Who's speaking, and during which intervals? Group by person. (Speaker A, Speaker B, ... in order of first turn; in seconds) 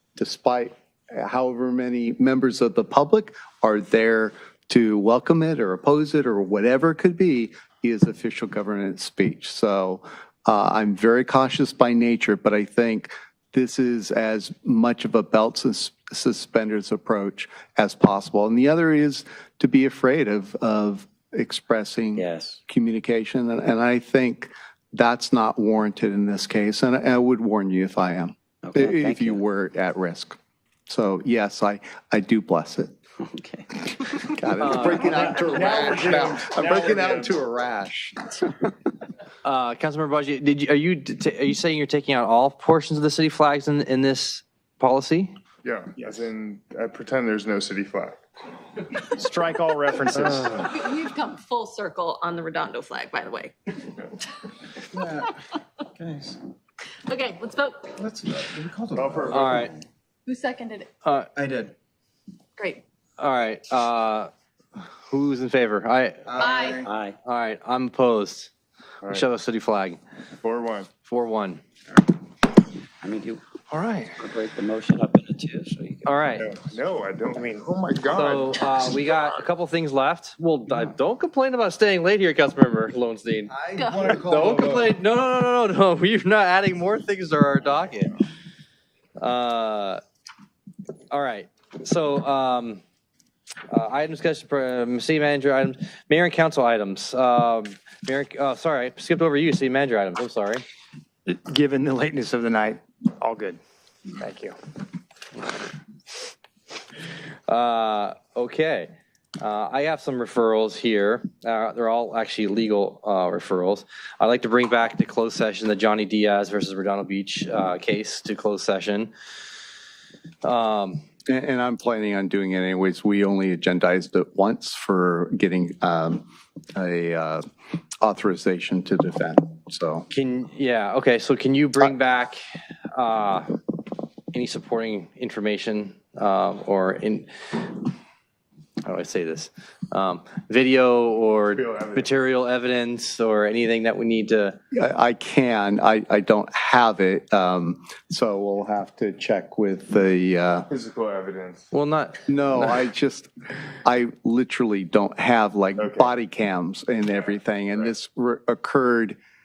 Speaker A: 0.1-30.4, 30.9-33.0, 34.2-38.7, 121.3-127.4, 128.0-130.1, 144.7-150.7, 152.3-153.3, 153.8-159.2
Speaker B: 22.1-22.6, 28.6-29.4, 33.2-33.7, 66.8-67.2, 73.0-73.4, 74.2-76.2
Speaker C: 34.6-35.7, 39.4-45.3, 59.2-59.7, 61.0-61.3, 63.2-66.4, 67.2-68.5, 69.0-70.0, 71.0-71.6, 73.7-74.2, 76.0-76.5, 78.1-88.2, 89.2-90.0, 91.1-92.8, 93.7-100.6, 107.5-119.1, 120.4-121.0, 130.1-132.4, 132.9-133.5, 134.3-137.9, 138.8-144.6, 151.7-152.8
Speaker D: 35.6-37.3, 45.6-48.2, 59.0-59.3, 70.4-70.9, 76.4-78.6, 141.6-142.1, 150.7-151.7, 155.8-156.1
Speaker E: 49.2-50.6, 101.3-103.6, 104.1-104.5
Speaker F: 50.6-53.5, 57.1-57.9, 60.3-60.9, 62.6-62.8, 66.4-66.8, 83.8-84.2
Speaker G: 54.9-55.3, 56.0-56.4, 58.0-59.8, 61.4-61.7, 66.3-66.9, 83.5-85.0